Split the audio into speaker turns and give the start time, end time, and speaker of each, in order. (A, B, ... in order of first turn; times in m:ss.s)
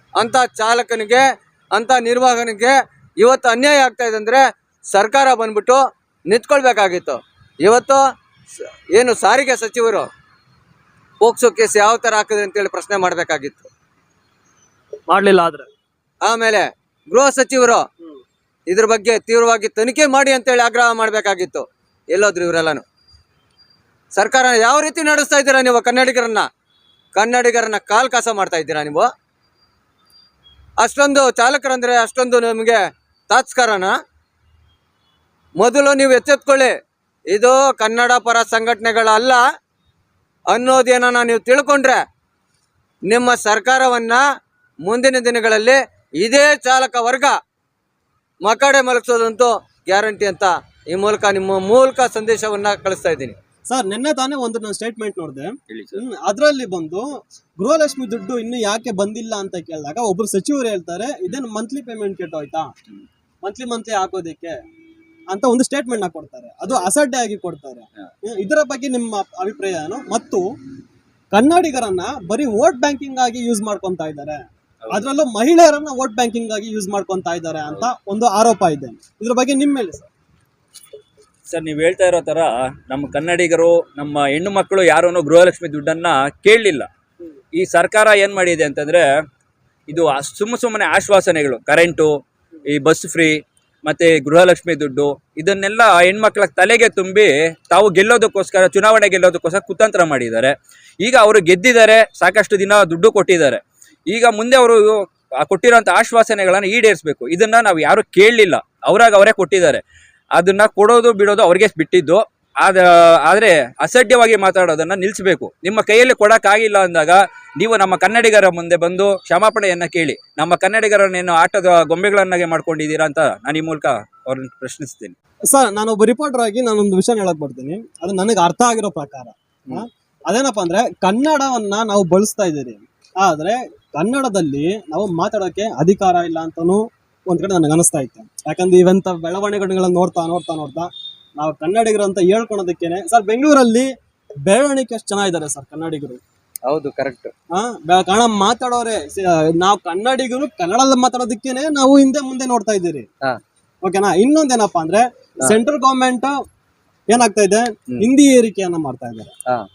0:00.2-0:04.4 A
0:04.9-0:08.0 A
0:08.9-0:10.1 A
0:11.2-0:13.7 A
0:15.1-0:15.7 B
0:16.2-0:17.8 A
0:18.7-0:22.8 A
0:24.2-0:26.4 A
0:27.2-0:29.1 A
0:30.8-0:34.0 A
0:35.6-0:36.7 A
0:37.3-0:39.4 A
0:40.5-0:42.0 A
0:43.1-0:44.2 A
0:44.8-0:47.3 A
0:48.4-0:53.4 A
0:53.7-0:57.1 B
0:55.7-0:56.0 C
0:57.6-1:02.7 B
1:03.4-1:04.6 B
1:05.3-1:10.4 B
1:11.3-1:20.1 B
1:21.5-1:26.9 C
1:27.6-1:29.0 C
1:29.9-1:32.1 C
1:32.7-1:44.8 C
1:45.4-1:49.8 C
1:50.4-2:05.2 C
2:05.5-2:23.9 B
2:24.5-2:26.2 B
2:26.7-2:27.3 A
2:27.5-2:33.1 B
2:33.8-2:36.4 B
2:37.1-2:39.3 B